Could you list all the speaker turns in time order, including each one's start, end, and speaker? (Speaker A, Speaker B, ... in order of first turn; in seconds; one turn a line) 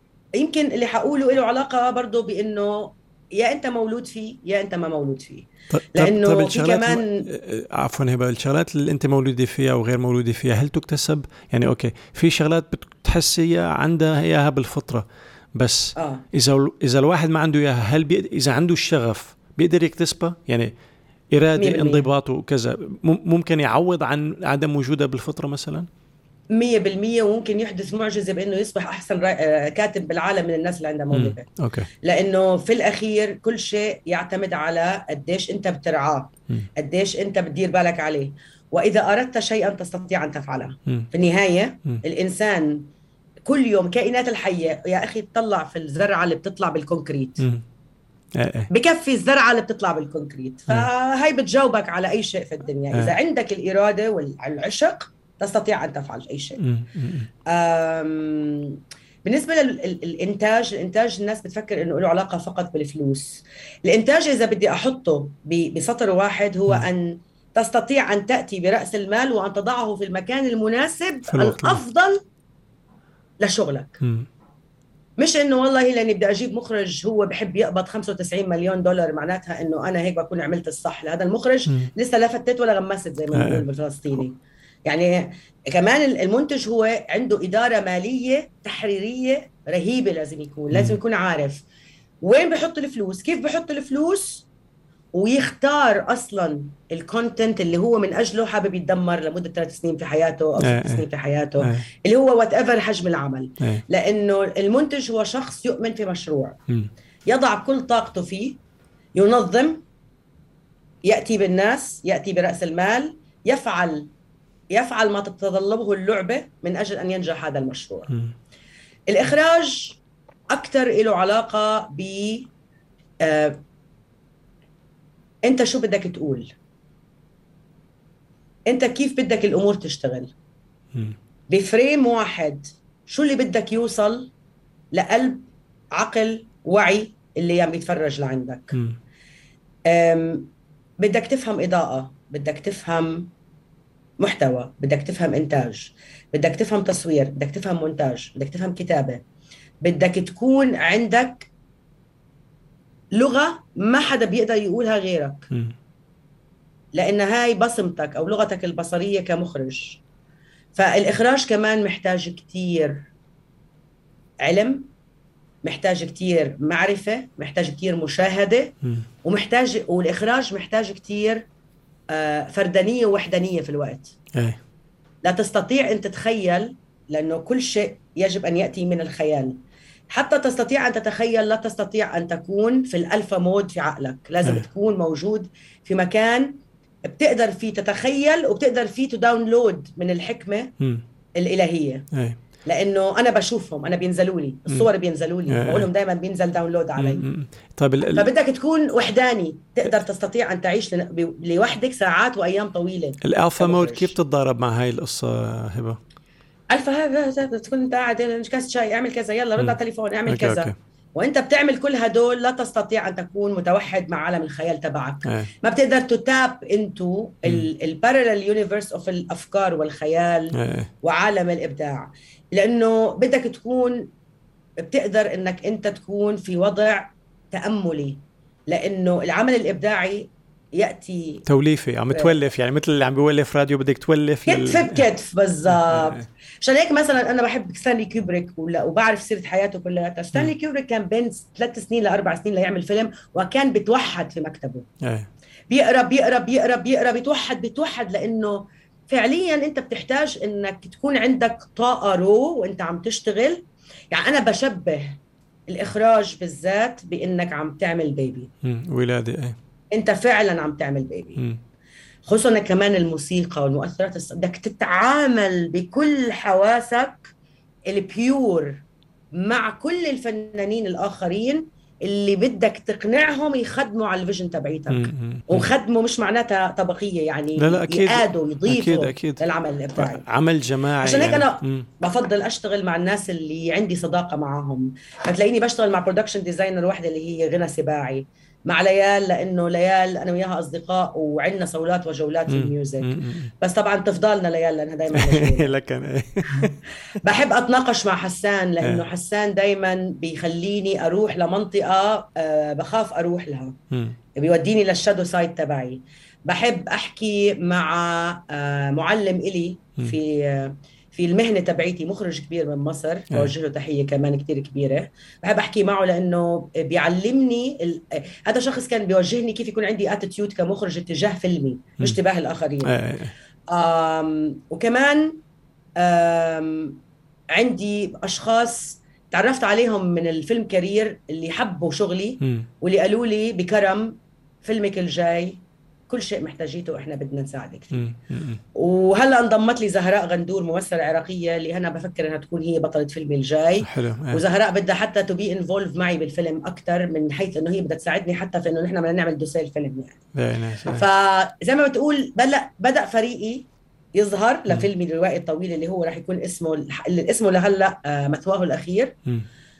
Speaker A: 0.3-7.2
Speaker B: 5.7-15.0
Speaker B: 15.6-20.7
Speaker A: 15.9-16.2
Speaker B: 21.3-25.9
Speaker A: 21.6-22.1
Speaker A: 26.5-31.5
Speaker B: 31.1-31.9
Speaker A: 32.0-42.9
Speaker A: 43.5-47.5
Speaker B: 48.4-48.7
Speaker A: 48.7-56.6
Speaker B: 56.6-57.3
Speaker A: 57.5-72.2
Speaker B: 71.3-71.8
Speaker A: 73.4-74.0
Speaker B: 74.0-74.3
Speaker A: 75.2-91.6
Speaker B: 83.3-83.6
Speaker A: 92.2-94.5
Speaker A: 95.1-106.6
Speaker B: 100.6-101.0
Speaker B: 101.6-101.8
Speaker A: 107.2-108.6
Speaker A: 109.1-109.8
Speaker A: 111.0-114.1
Speaker A: 114.7-118.1
Speaker A: 119.1-122.5
Speaker A: 123.2-123.6
Speaker A: 125.4-126.5
Speaker A: 128.7-130.3
Speaker A: 131.5-134.3
Speaker A: 134.9-138.8
Speaker B: 138.7-139.0
Speaker A: 139.9-140.5
Speaker A: 141.0-143.3
Speaker A: 144.2-149.2
Speaker A: 149.8-151.5
Speaker A: 153.1-155.5
Speaker A: 156.9-160.0
Speaker A: 160.7-163.1
Speaker A: 164.4-164.9
Speaker A: 165.6-171.4
Speaker A: 172.1-174.1
Speaker A: 175.2-179.6
Speaker A: 180.1-190.7
Speaker A: 191.4-192.1
Speaker B: 192.1-192.4
Speaker A: 192.7-197.2
Speaker B: 195.5-195.9
Speaker B: 197.0-198.3
Speaker A: 198.1-204.1
Speaker B: 203.2-206.0
Speaker A: 206.7-224.1
Speaker B: 209.6-210.7
Speaker B: 220.5-220.9
Speaker A: 224.8-231.4
Speaker B: 231.4-235.1
Speaker A: 234.4-244.8
Speaker B: 235.7-236.2
Speaker B: 245.0-245.3
Speaker A: 245.7-258.5
Speaker B: 258.6-259.6
Speaker A: 259.9-261.4
Speaker A: 262.3-267.3
Speaker A: 267.9-280.2
Speaker B: 274.9-275.7
Speaker B: 277.6-279.4
Speaker B: 279.9-281.9
Speaker A: 281.0-295.8
Speaker B: 292.5-293.5
Speaker B: 295.1-296.8
Speaker A: 296.5-303.8
Speaker A: 304.4-322.9
Speaker B: 322.8-323.3
Speaker A: 323.7-325.4
Speaker A: 326.0-327.0
Speaker A: 327.5-338.0
Speaker B: 332.4-332.7
Speaker B: 337.9-338.6
Speaker A: 338.7-350.2
Speaker B: 343.8-344.4
Speaker B: 350.3-351.1
Speaker A: 350.9-359.1